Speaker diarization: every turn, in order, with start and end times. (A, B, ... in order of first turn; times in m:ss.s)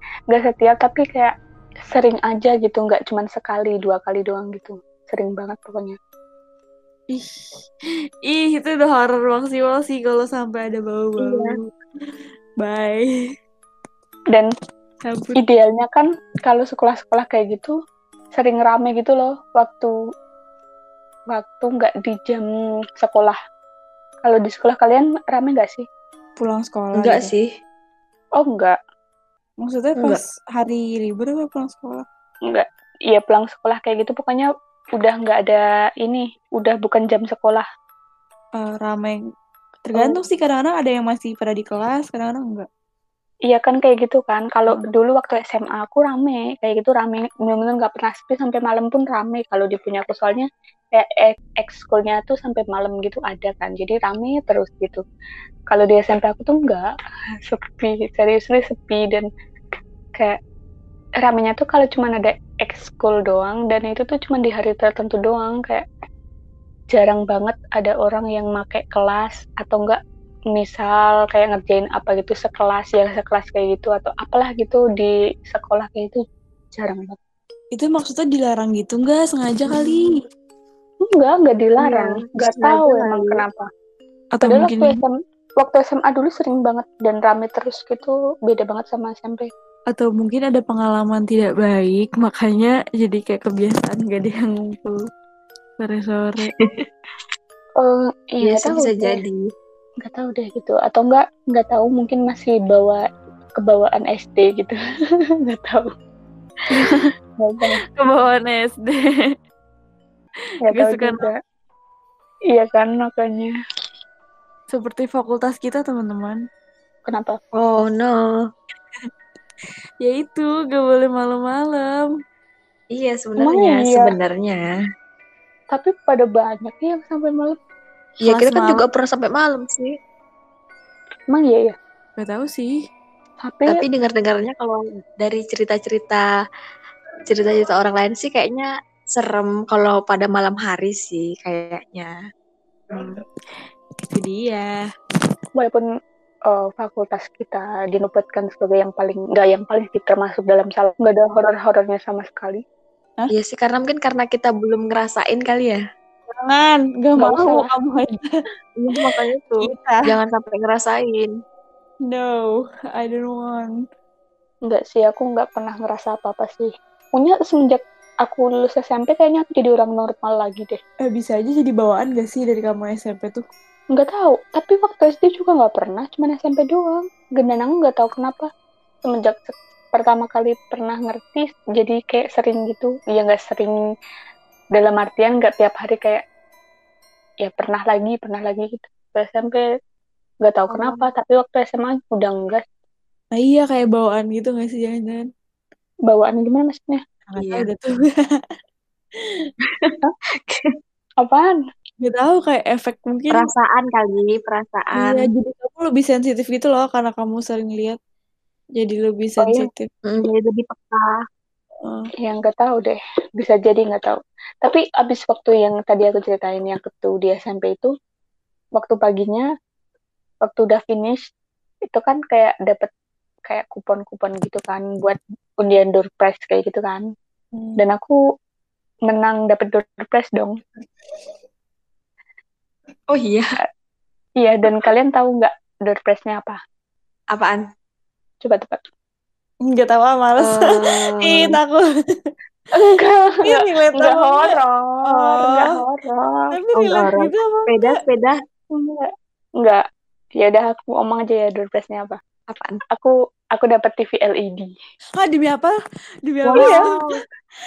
0:00.3-0:01.3 A
0:01.9-0:06.0 A
0:07.1-0:07.4 B
0:08.3-0:11.6 B
0:11.2-0:11.6 C
0:12.6-0:13.1 B
0:15.0-0:15.4 B
0:15.4-0:17.7 A
0:18.4-0:19.9 A
0:21.3-0:22.5 A
0:23.0-0:23.4 A
0:24.2-0:25.8 A
0:26.4-0:27.3 B
0:27.0-0:27.4 C
0:28.4-0:28.8 A
0:29.6-0:32.0 B
0:32.5-0:37.6 A
0:38.6-0:39.2 B
0:39.8-0:42.7 B
0:43.5-0:55.0 A
0:55.7-0:56.9 A
0:57.4-0:59.3 A
1:01.2-1:05.8 A
1:06.9-1:10.0 A
1:10.5-1:16.2 A
1:16.7-1:17.2 A
1:17.7-1:20.2 B
1:19.7-1:20.0 C
1:21.1-1:23.6 A
1:21.8-1:23.4 C
1:24.4-1:25.0 B
1:24.4-1:29.5 A
1:29.9-1:35.0 B
1:35.8-1:36.5 B
1:36.5-1:36.7 C
1:37.8-1:39.2 A
1:38.4-1:39.4 C
1:40.0-1:43.0 A
1:43.6-1:44.8 A
1:45.5-1:45.9 A
1:46.7-1:47.1 B
1:47.4-1:47.8 A
1:48.0-1:49.3 B
1:50.7-1:51.3 A
1:50.7-1:51.3 B
1:52.5-1:53.5 A
1:54.7-1:56.4 B
1:57.1-1:57.4 A
1:57.5-1:58.4 C
2:00.0-2:02.1 B
2:02.9-2:04.7 C
2:03.4-2:04.1 A
2:05.7-2:07.6 A
2:08.2-2:09.9 C
2:08.2-2:08.9 B
2:11.3-2:11.7 A
2:12.2-2:12.7 B
2:13.4-2:13.8 A
2:13.7-2:16.2 C
2:17.3-2:22.1 C
2:24.1-2:24.8 B
2:25.6-2:25.9 A
2:26.5-2:32.6 A
2:33.3-2:35.8 C
2:36.3-2:38.2 B
2:37.2-2:37.7 A
2:38.8-2:41.3 C
2:39.0-2:40.1 B
2:42.1-2:43.7 B
2:44.7-2:50.8 A
2:51.0-2:53.4 B
2:53.9-2:58.5 A
2:59.0-3:03.8 A
3:04.8-3:06.2 A
3:07.4-3:09.6 A
3:10.4-3:12.6 A
3:10.7-3:11.0 C
3:13.4-3:15.2 B
3:16.1-3:17.0 A
3:17.3-3:18.4 B
3:17.4-3:17.7 C
3:19.6-3:20.7 C
3:21.2-3:21.6 A
3:22.0-3:23.5 B
3:23.3-3:25.3 C
3:25.0-3:28.0 B
3:28.8-3:29.9 B
3:30.0-3:31.1 C
3:32.2-3:37.9 A
3:38.8-3:39.5 A
3:40.4-3:41.2 A
3:41.9-3:42.9 A
3:43.4-3:47.0 A
3:47.8-3:48.2 A
3:49.1-3:50.5 A
3:53.1-3:53.6 C
3:54.4-3:56.6 A
3:57.3-3:57.6 C
3:58.4-3:58.8 A
3:59.7-4:01.9 B
4:00.4-4:01.6 C
4:02.7-4:06.4 A
4:03.4-4:04.6 B
4:05.1-4:05.7 B
4:06.5-4:07.9 B
4:06.7-4:08.4 C
4:08.7-4:09.1 A
4:10.4-4:12.2 A
4:12.5-4:12.8 C
4:12.9-4:14.7 A
4:15.2-4:17.2 B
4:16.4-4:17.2 C
4:16.5-4:16.8 A